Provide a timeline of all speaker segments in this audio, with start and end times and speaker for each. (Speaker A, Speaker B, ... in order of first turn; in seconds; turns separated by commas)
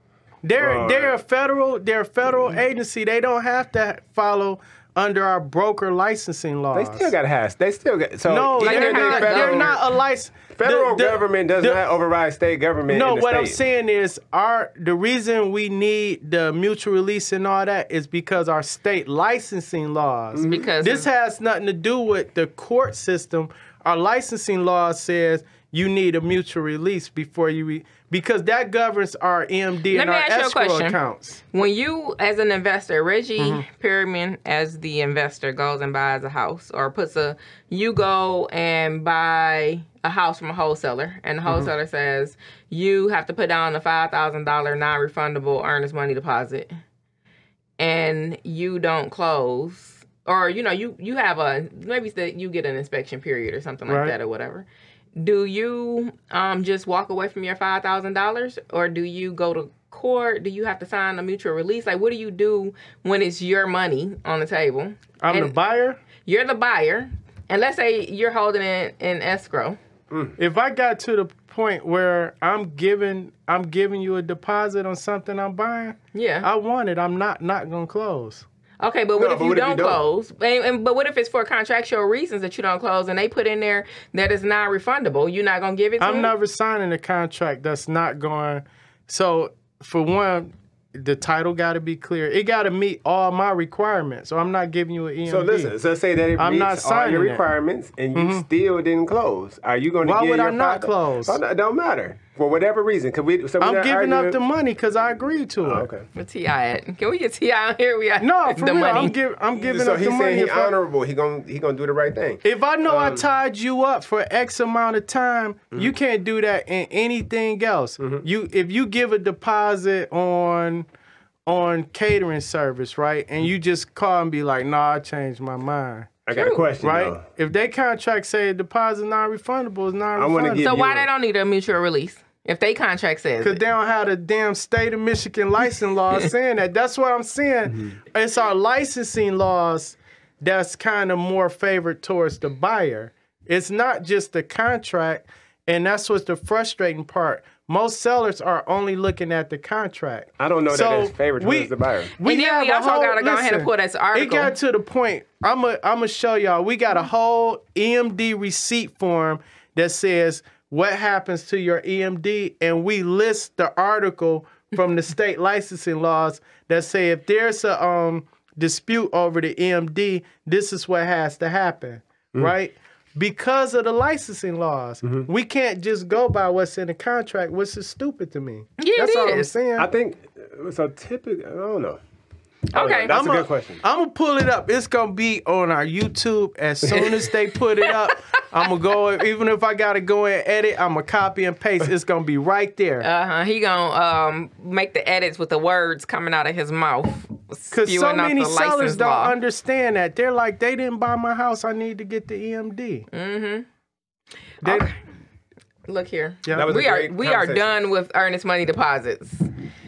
Speaker A: 0.4-7.1, Speaker B: 0.6-1.2, Speaker B: 6.7-9.8, Speaker A: 8.3-11.8, Speaker C: 8.6-9.8, Speaker B: 10.5-13.6, Speaker A: 12.9-31.4, Speaker B: 20.3-20.7, Speaker C: 20.5-21.1, Speaker C: 29.9-31.0, Speaker C: 31.5-46.7, Speaker A: 33.4-33.6, Speaker C: 47.8-54.7, Speaker A: 53.9-54.1, Speaker C: 55.2-65.5, Speaker A: 65.2-66.0, Speaker C: 66.2-69.8, Speaker B: 70.1-70.4, Speaker A: 70.4-78.5, Speaker C: 76.1-76.5, Speaker C: 78.8-86.3, Speaker B: 79.2-80.0, Speaker A: 86.0-95.7, Speaker B: 95.3-104.4, Speaker A: 96.4-97.4, Speaker A: 98.2-98.5, Speaker A: 100.0-101.4, Speaker A: 103.6-105.9, Speaker B: 105.6-106.1, Speaker C: 106.1-109.2, Speaker A: 108.2-110.7, Speaker B: 109.6-113.3, Speaker A: 112.4-120.9, Speaker A: 121.5-126.1, Speaker B: 126.3-127.2, Speaker C: 126.3-126.7, Speaker A: 126.8-130.7, Speaker B: 130.2-131.1, Speaker C: 130.6-133.6, Speaker A: 133.4-179.9, Speaker B: 150.4-152.1, Speaker C: 152.2-154.5, Speaker C: 178.8-179.5, Speaker B: 179.8-182.0, Speaker C: 182.7-183.2, Speaker B: 182.7-183.8, Speaker A: 183.1-193.1, Speaker C: 186.9-188.4, Speaker C: 193.0-199.3, Speaker A: 197.7-203.1, Speaker C: 203.1-203.7, Speaker A: 204.6-204.9, Speaker C: 204.6-204.9, Speaker C: 205.9-209.5, Speaker A: 206.5-206.7, Speaker B: 206.5-207.7